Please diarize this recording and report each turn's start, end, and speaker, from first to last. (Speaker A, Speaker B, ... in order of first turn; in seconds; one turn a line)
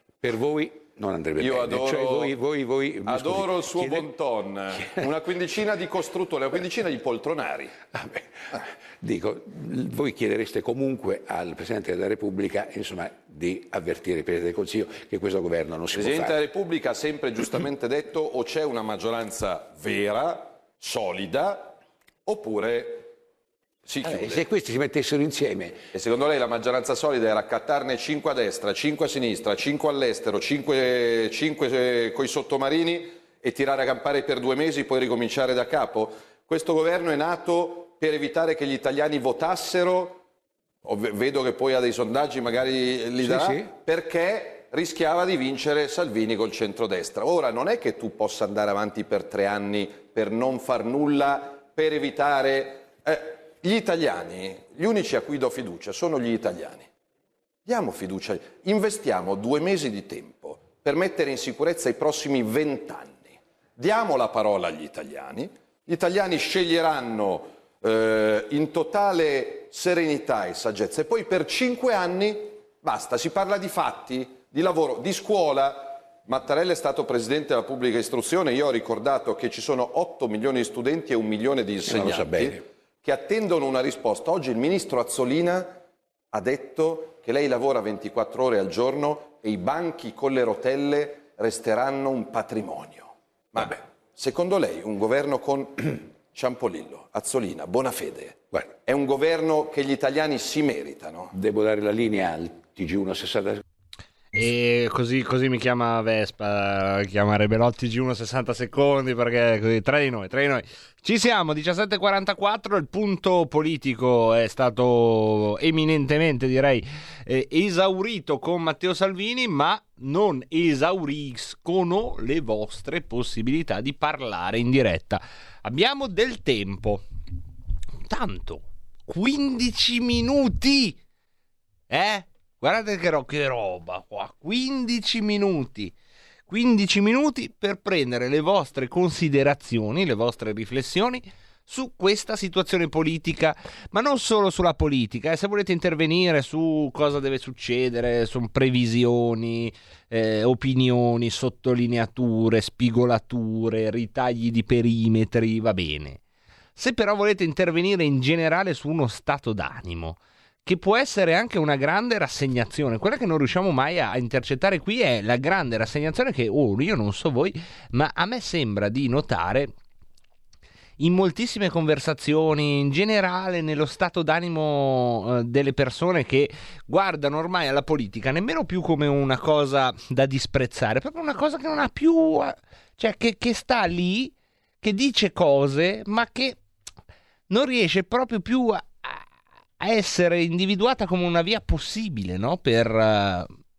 Speaker A: 0.2-4.1
Speaker B: 1.4-2.3
Speaker B: 3.0-7.8
Speaker A: 4.7-5.1
Speaker A: 7.9-16.4
Speaker B: 15.9-23.1
Speaker B: 23.8-24.5
Speaker A: 24.0-25.9
Speaker B: 25.9-40.2
Speaker B: 40.8-56.9
Speaker B: 57.6-85.7
Speaker A: 81.8-82.6
Speaker B: 86.3-101.3
Speaker A: 98.5-98.8
Speaker A: 101.3-103.6
Speaker C: 104.3-127.0
Speaker C: 128.1-131.0
Speaker C: 131.9-135.9
Speaker C: 136.5-156.2
Speaker C: 156.8-169.7
Speaker C: 171.0-186.6
Speaker C: 187.5-189.2
Speaker C: 189.8-193.5